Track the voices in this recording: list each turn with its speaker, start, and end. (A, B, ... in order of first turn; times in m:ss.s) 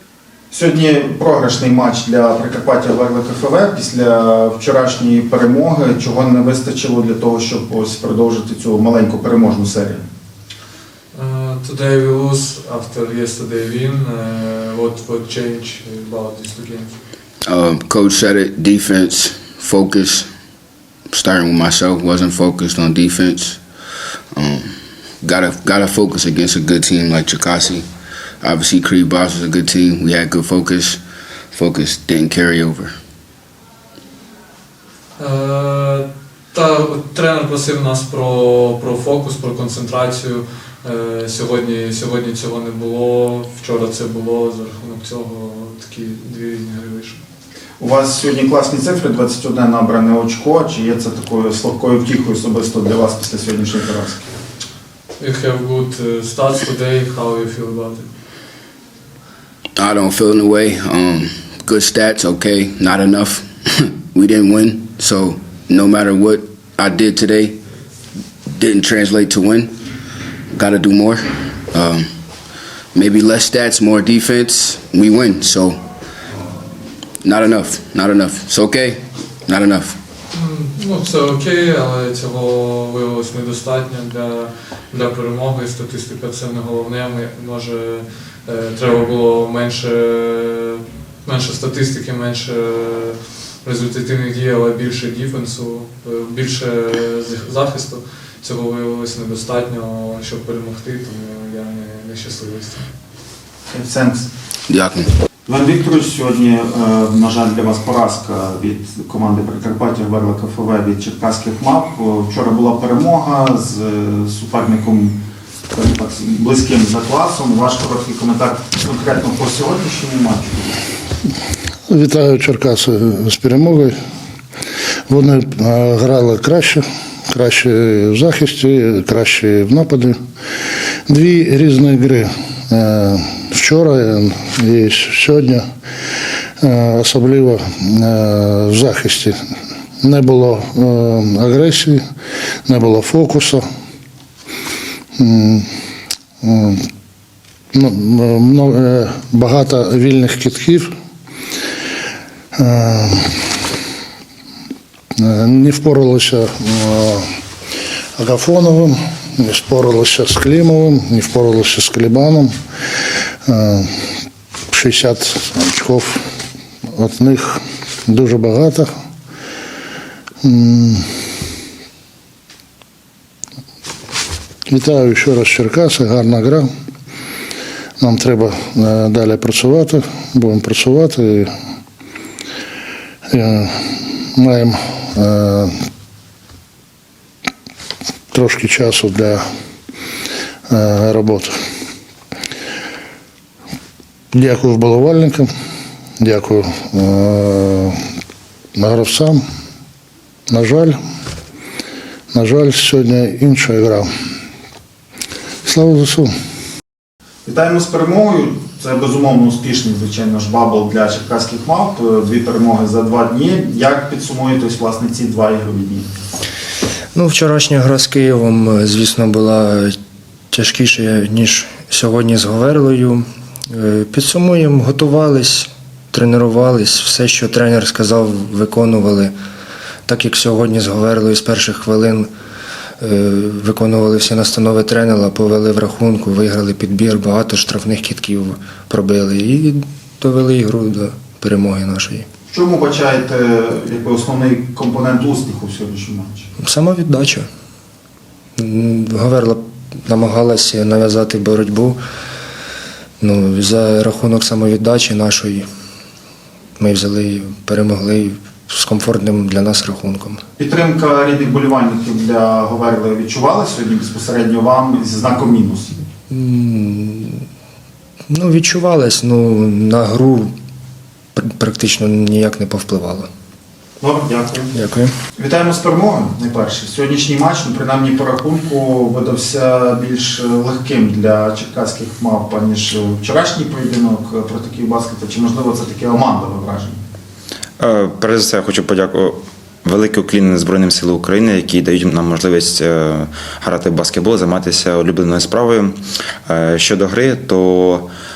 0:00.5-0:10.0 A
0:11.1-0:17.0 B
0:17.5-0:20.3 C
0:21.1-0:23.6 C
0:24.4-0:24.6 C
0:25.2-0:27.8 C
0:28.4-0:31.0 C
0:31.5-0:32.9 C
0:35.2-0:47.2 B
0:47.8-0:54.2 A
0:55.2-0:58.1 B
0:59.8-1:03.4 C
1:04.1-1:07.6 C
1:08.6-1:09.7 C
1:10.5-1:11.2 C
1:11.8-1:12.0 C
1:13.0-1:15.8 C
1:17.2-1:19.0 C
1:19.5-1:19.9 C
1:20.3-1:42.9 B
1:43.7-1:44.3 A
1:44.7-1:45.1 C
1:45.5-1:55.2 A
1:55.7-2:00.8 A
2:01.9-2:04.0 D
2:05.1-2:10.2 D
2:11.1-2:15.6 D
2:16.6-2:19.4 D
2:20.0-2:22.0 D
2:22.7-2:23.7 D
2:25.2-2:25.7 D
2:26.4-2:26.8 D
2:27.7-2:30.9 D
2:32.6-2:33.5 D
2:35.2-2:37.2 D
2:38.2-2:42.6 D
2:43.4-2:43.9 D
2:44.7-2:46.2 D
2:46.9-2:48.9 D
2:50.4-2:51.0 D
2:54.7-2:56.7 D
2:58.0-3:01.5 D
3:03.3-3:05.7 D
3:08.3-3:09.4 D
3:10.7-3:11.6 D
3:14.3-3:15.5 D
3:16.2-3:18.0 D
3:18.8-3:19.4 D
3:20.5-3:21.0 D
3:22.3-3:24.1 D
3:25.6-3:26.3 D
3:27.4-3:36.1 A
3:37.1-3:40.0 E
3:40.5-3:49.3 E
3:50.1-3:52.3 E
3:53.0-4:02.3 E
4:02.5-4:06.5 A
4:06.6-4:07.5 E
4:08.6-4:12.0 E
4:13.2-4:15.7 E
4:16.8-4:20.4 E
4:20.6-4:26.0 A
4:26.3-4:27.5 E
4:28.3-4:30.5 E
4:31.4-4:33.3 E
4:34.0-4:34.7 A
4:34.7-4:35.2 E
4:35.4-4:47.0 A
4:47.8-4:55.9 F
4:56.5-4:58.1 F